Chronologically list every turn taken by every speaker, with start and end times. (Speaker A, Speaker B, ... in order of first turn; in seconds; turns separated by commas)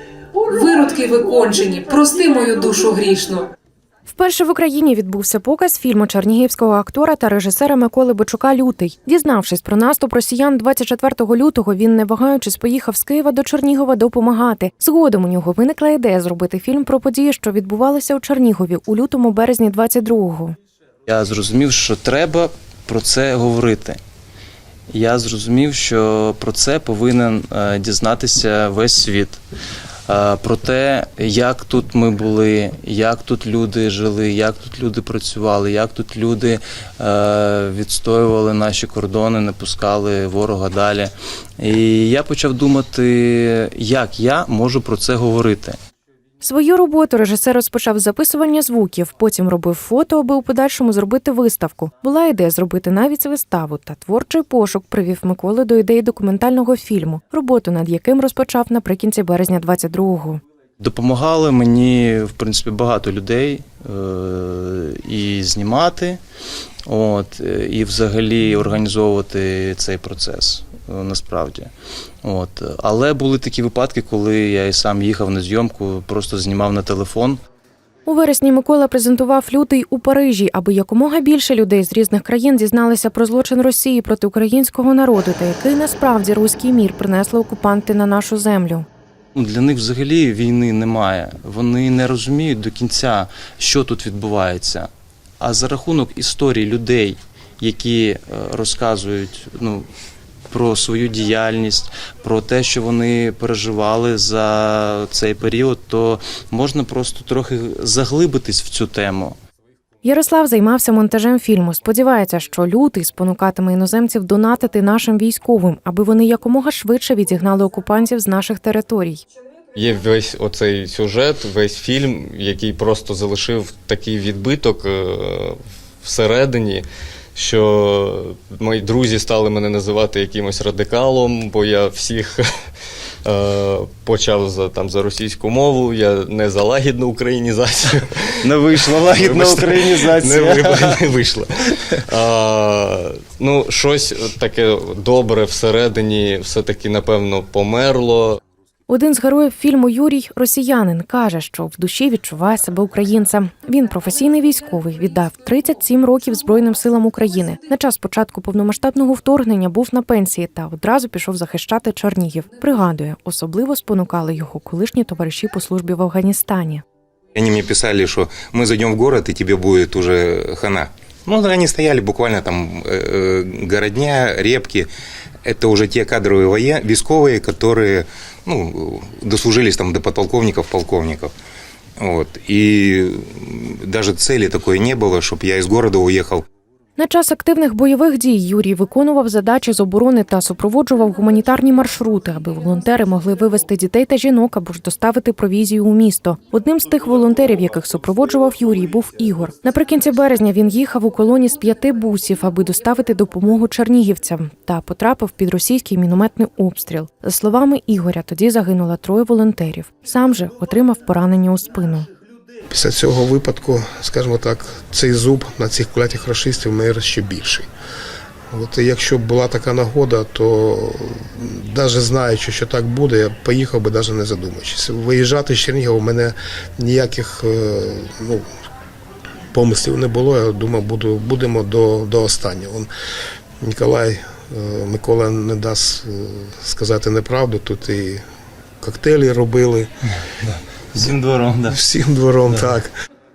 Speaker A: 0.5-3.5, Speaker B: 4.1-20.6, Speaker C: 21.1-24.0, Speaker C: 24.9-29.4, Speaker C: 30.1-45.8, Speaker B: 46.4-60.4, Speaker C: 60.8-66.2, Speaker C: 66.9-71.7, Speaker C: 72.2-77.4, Speaker B: 78.0-88.9, Speaker C: 89.3-99.9, Speaker C: 100.5-109.4, Speaker B: 110.0-119.2, Speaker D: 119.7-132.4, Speaker D: 133.2-138.5, Speaker C: 138.4-141.0, Speaker D: 139.1-148.4, Speaker B: 148.9-166.8, Speaker E: 167.3-174.9, Speaker E: 175.4-181.3, Speaker E: 182.0-186.4, Speaker B: 187.0-212.1, Speaker F: 212.7-217.7, Speaker F: 218.5-228.4, Speaker F: 229.5-232.9, Speaker F: 233.6-238.2, Speaker F: 238.8-239.9, Speaker C: 240.9-241.8, Speaker F: 241.7-242.9